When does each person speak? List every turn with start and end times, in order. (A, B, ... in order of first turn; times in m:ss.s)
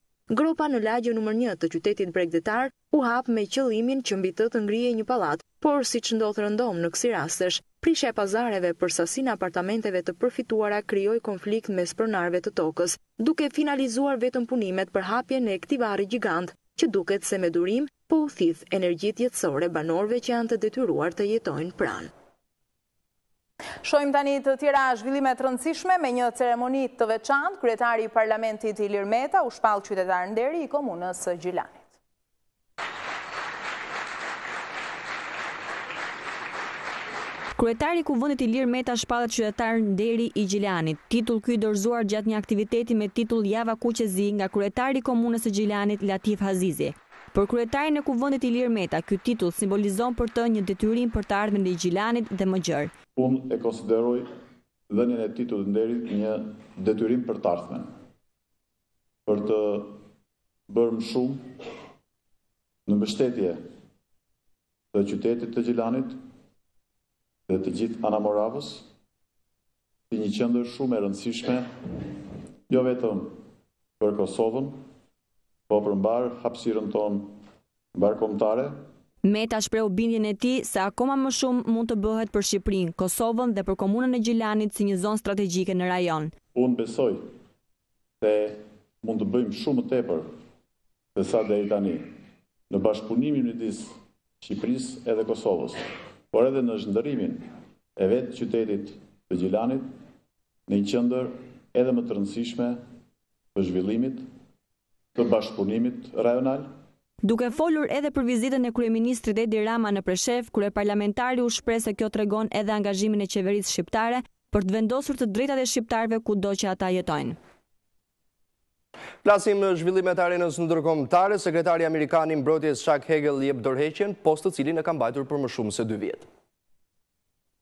0:00.3-0:22.1 A
0:23.8-0:31.9 B
0:37.6-0:52.9 C
0:53.2-0:54.3 D
0:54.9-0:57.9 D
0:59.2-1:00.0 D
1:00.7-1:01.5 D
1:02.8-1:03.6 D
1:04.9-1:06.2 D
1:07.5-1:08.8 D
1:10.1-1:11.7 D
1:12.7-1:13.4 D
1:14.0-1:14.8 D
1:15.7-1:17.4 D
1:17.9-1:18.8 D
1:19.2-1:26.3 C
1:26.5-1:27.3 D
1:28.2-1:30.3 D
1:31.1-1:32.1 D
1:32.7-1:39.9 D
1:40.7-1:42.8 D
1:43.5-1:44.2 D
1:45.1-1:46.7 D
1:47.2-1:57.4 C
1:59.2-2:06.3 E